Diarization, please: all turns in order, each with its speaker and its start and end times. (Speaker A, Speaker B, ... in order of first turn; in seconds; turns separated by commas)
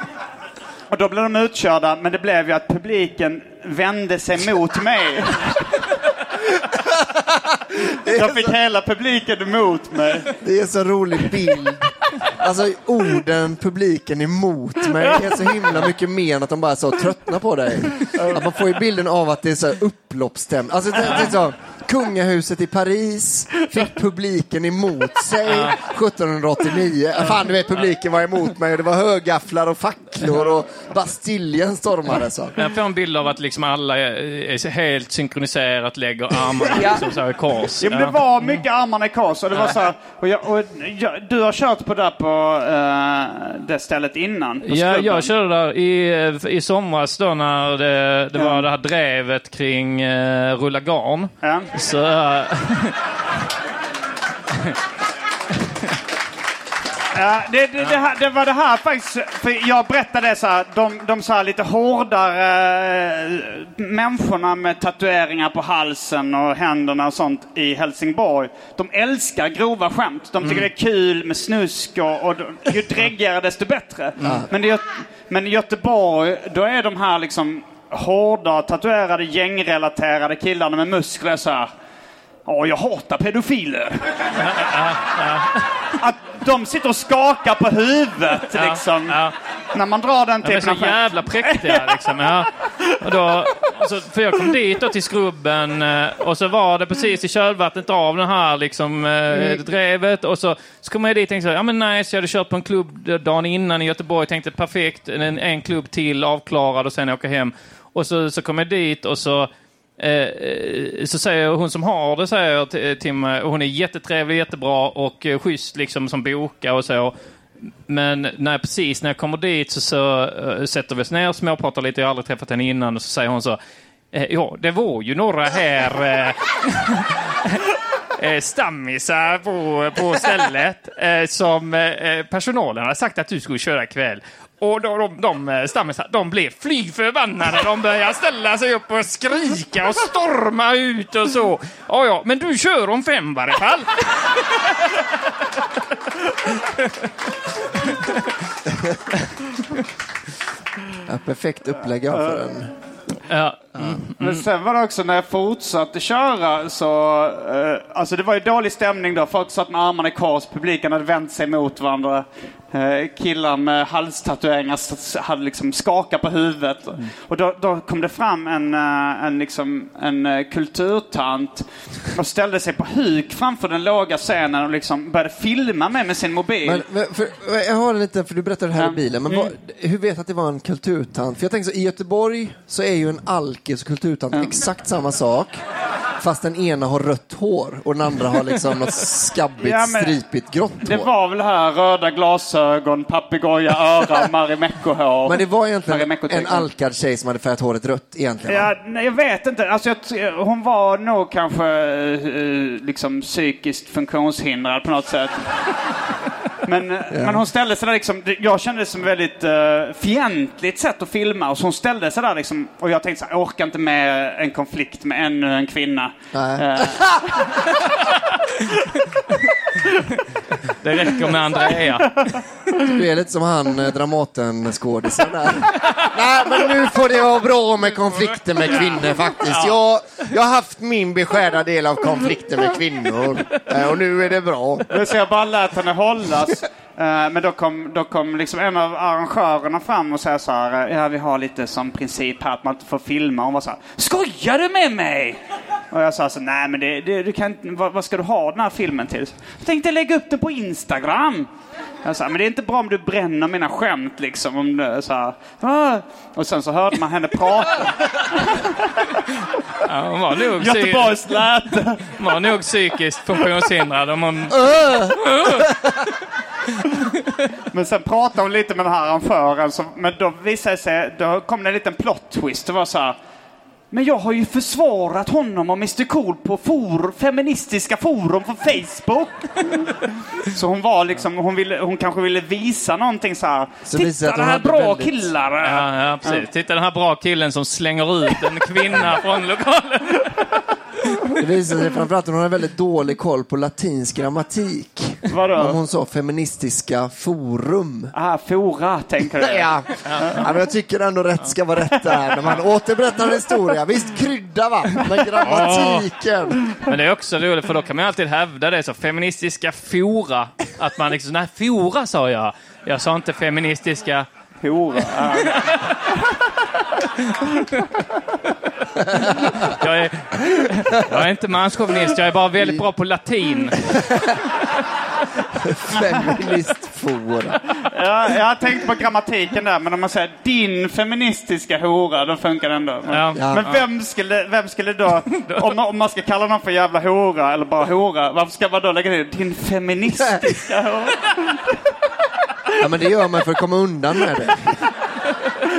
Speaker A: 0.9-5.5, Speaker B: 6.8-8.5, Speaker A: 8.1-10.3, Speaker B: 10.4-32.5, Speaker A: 18.0-18.5, Speaker C: 25.4-25.8, Speaker C: 32.5-38.2, Speaker A: 37.8-45.3, Speaker C: 44.7-53.0, Speaker A: 48.3-48.6, Speaker A: 51.4-51.7, Speaker A: 57.1-81.7, Speaker C: 70.4-70.7, Speaker C: 74.2-74.5, Speaker B: 74.2-74.5, Speaker A: 82.5-84.2, Speaker C: 84.3-85.7, Speaker A: 86.0-89.2, Speaker C: 88.5-89.3, Speaker A: 89.7-92.0, Speaker C: 90.4-117.1, Speaker C: 117.9-123.6, Speaker C: 124.1-127.6, Speaker C: 128.2-144.0, Speaker C: 147.9-148.2, Speaker B: 151.1-152.7, Speaker A: 152.1-152.4, Speaker C: 153.3-154.4, Speaker B: 153.8-154.0, Speaker A: 154.2-176.8, Speaker B: 176.6-185.6, Speaker A: 178.8-179.5, Speaker A: 184.3-184.6, Speaker B: 186.2-191.1, Speaker A: 189.6-190.2, Speaker A: 190.8-196.7, Speaker B: 195.2-198.7, Speaker A: 198.4-205.3, Speaker A: 206.6-217.7, Speaker B: 207.1-207.4, Speaker B: 216.3-217.1, Speaker C: 220.8-222.3, Speaker B: 222.9-234.9, Speaker C: 228.6-229.8, Speaker A: 234.9-245.4, Speaker A: 245.9-251.5, Speaker A: 252.0-259.0, Speaker C: 259.8-261.2, Speaker A: 260.6-262.1, Speaker C: 262.1-265.7, Speaker B: 264.5-265.9, Speaker C: 266.7-267.4, Speaker A: 267.7-273.1, Speaker A: 273.9-286.4, Speaker B: 283.9-285.3, Speaker C: 285.6-290.3, Speaker B: 291.4-298.1, Speaker A: 295.3-295.8, Speaker A: 298.1-300.4, Speaker B: 299.4-306.6, Speaker C: 300.0-300.4, Speaker C: 305.4-306.1, Speaker C: 306.9-314.3, Speaker A: 314.6-316.1, Speaker C: 315.6-315.9, Speaker C: 317.2-317.8, Speaker C: 319.2-324.0, Speaker B: 322.6-322.8, Speaker B: 323.9-324.4, Speaker B: 325.6-327.6, Speaker A: 327.9-341.7, Speaker C: 333.1-333.8, Speaker B: 333.4-333.7, Speaker C: 335.3-335.7, Speaker B: 342.8-344.9